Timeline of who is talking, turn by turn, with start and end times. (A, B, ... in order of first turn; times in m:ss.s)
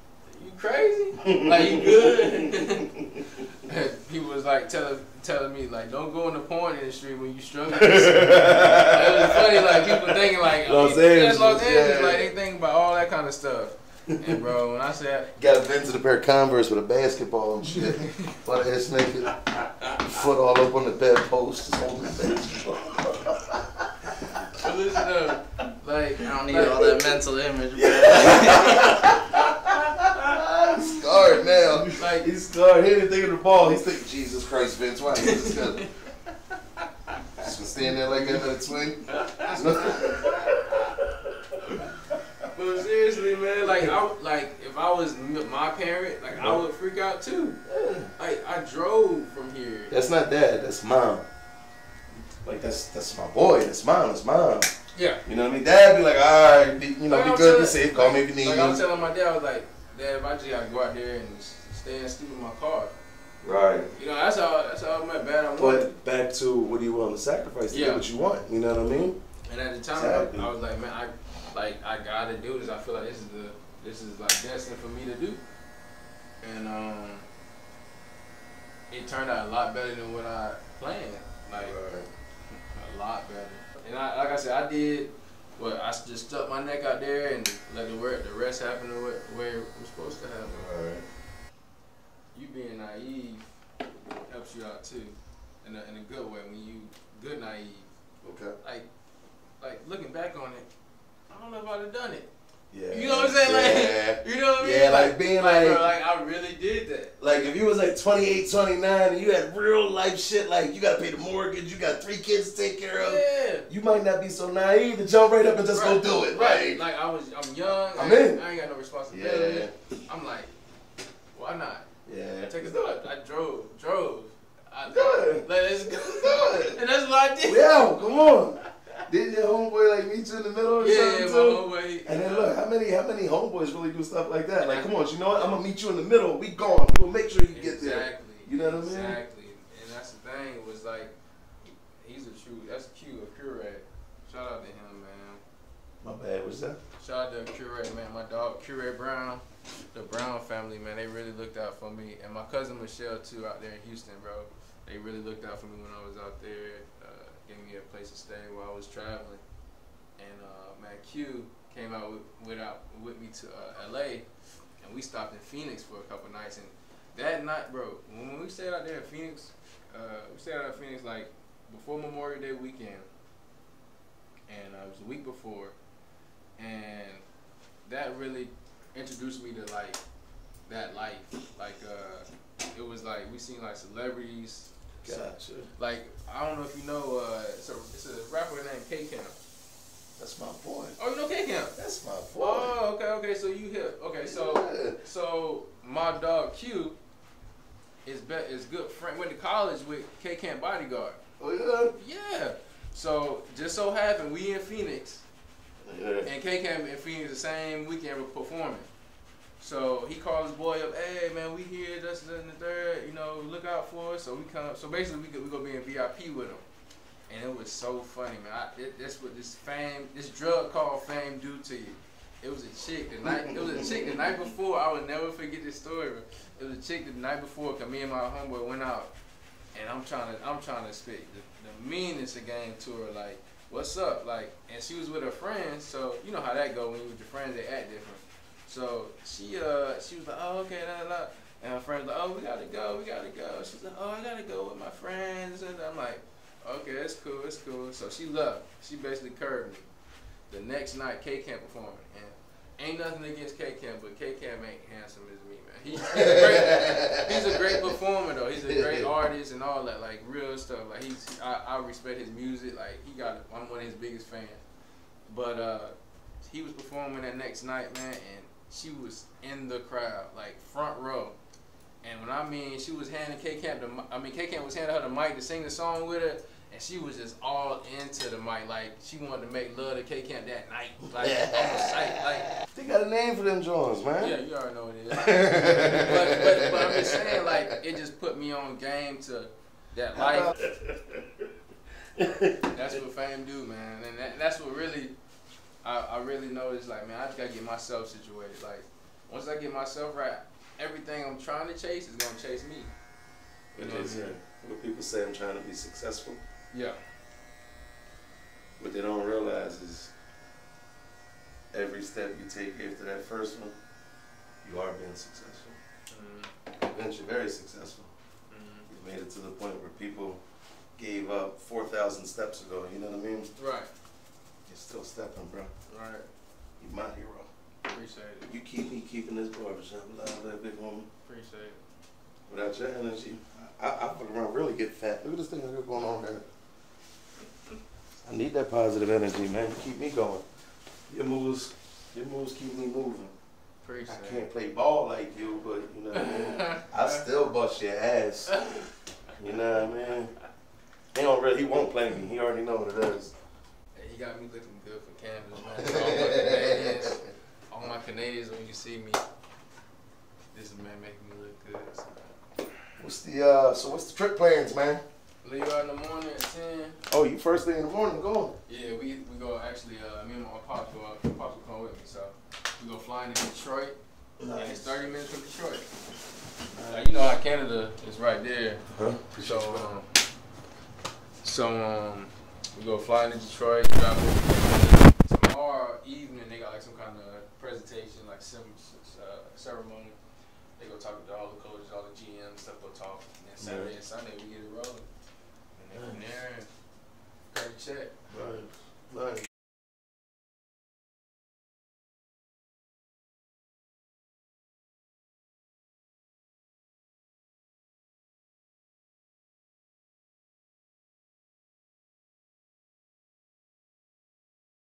0:00.3-0:02.9 A
0:01.2-0:03.2 B
0:03.5-0:15.3 A
0:07.7-0:12.3 B
0:14.1-0:14.4 B
0:15.4-0:24.4 B
0:17.9-0:18.3 A
0:24.6-0:26.9 A
0:26.2-0:28.9 C
0:27.7-0:35.8 B
0:28.4-0:28.8 A
0:31.9-0:32.3 A
0:35.3-0:35.9 A
0:37.4-0:41.3 B
0:38.1-0:38.5 A
0:39.1-0:40.6 A
0:42.5-0:47.6 A
0:43.6-0:43.9 B
0:47.7-0:48.1 B
0:48.2-0:49.9 A
0:49.9-0:51.2 B
0:52.2-0:54.7 B
0:54.9-0:55.2 A
0:55.2-0:58.8 B
0:57.1-1:02.9 A
1:03.4-1:03.9 B
1:03.9-1:05.9 A
1:05.6-1:09.2 B
1:07.7-1:08.0 A
1:09.5-1:15.4 A
1:09.9-1:10.5 B
1:16.4-1:17.2 A
1:18.9-1:21.7 A
1:21.5-1:22.1 B
1:22.7-1:30.6 A
1:30.4-1:31.0 B
1:32.3-1:33.5 A
1:34.2-1:37.9 A
1:38.2-1:38.6 B
1:38.6-1:38.9 A
1:39.6-1:40.7 A
1:41.3-1:42.3 A
1:42.7-1:45.9 B
1:42.9-1:47.2 A
1:47.2-1:56.8 B
1:53.0-1:53.7 A
1:55.7-2:00.5 A
1:57.9-1:58.4 B
1:59.1-1:59.7 B
2:01.3-2:01.8 A
2:02.0-2:03.0 B
2:02.4-2:08.6 A
2:04.9-2:06.8 B
2:07.4-2:19.2 B
2:10.8-2:12.6 A
2:14.6-2:15.5 A
2:17.5-2:25.4 A
2:26.0-2:26.8 B
2:27.0-2:39.4 A
2:40.2-2:44.2 A
2:44.8-2:53.1 A
2:54.5-2:55.7 A
2:56.6-2:57.2 A
2:57.8-3:00.0 A
3:00.7-3:09.3 A
3:05.0-3:05.7 B
3:10.2-3:11.0 B
3:11.0-3:11.7 A
3:11.7-3:12.7 B
3:12.4-3:17.0 A
3:14.2-3:15.0 B
3:18.0-3:21.2 A
3:21.4-3:21.9 B
3:22.0-3:25.2 A
3:25.8-3:26.3 B
3:26.2-3:28.9 A
3:29.6-3:36.6 A
3:37.3-3:49.1 A
3:43.2-3:44.4 B
3:49.7-4:09.9 A
4:10.5-4:24.6 A
4:16.0-4:17.9 B
4:18.6-4:19.1 B
4:25.3-4:31.4 A
4:32.0-4:42.5 A
4:41.1-4:44.4 B
4:44.2-4:50.5 A
4:45.1-4:47.6 B
4:50.1-4:51.4 B
4:52.2-4:52.8 B
4:52.7-4:55.1 A
4:55.8-5:02.9 A
5:03.7-5:04.4 A
5:03.7-5:06.4 B
5:06.7-5:07.0 A
5:08.8-5:10.1 B
5:11.7-5:13.8 B
5:14.6-5:15.8 B
5:16.1-5:16.5 A
5:16.8-5:18.1 B
5:18.5-5:18.9 A
5:18.9-5:20.4 B
5:21.0-5:23.5 B
5:23.6-5:23.9 A
5:24.7-5:25.7 B
5:25.9-5:26.3 A
5:26.8-5:27.5 B
5:27.8-5:28.5 A
5:28.5-5:31.1 B
5:31.2-5:31.8 A
5:32.5-5:36.4 B
5:38.2-5:40.4 B
5:41.1-5:43.3 B
5:43.8-5:44.5 A
5:44.1-5:48.5 B
5:46.1-5:47.2 A
5:48.5-5:48.8 A
5:49.4-5:50.3 B
5:51.1-5:53.3 B
5:53.9-5:59.2 A
5:55.6-5:57.2 B
6:00.5-6:02.3 A
6:03.0-6:05.0 B
6:05.4-6:07.0 A
6:07.1-6:08.6 B
6:08.7-6:14.0 A
6:14.4-6:15.2 B
6:14.5-6:15.8 A
6:16.7-6:17.1 B
6:16.8-6:20.1 A
6:18.9-6:20.0 B
6:21.4-6:30.2 A
6:30.8-6:35.0 A
6:33.6-6:33.9 B
6:35.8-6:36.7 A
6:35.9-6:36.3 B
6:37.5-6:38.1 A
6:38.3-6:39.5 B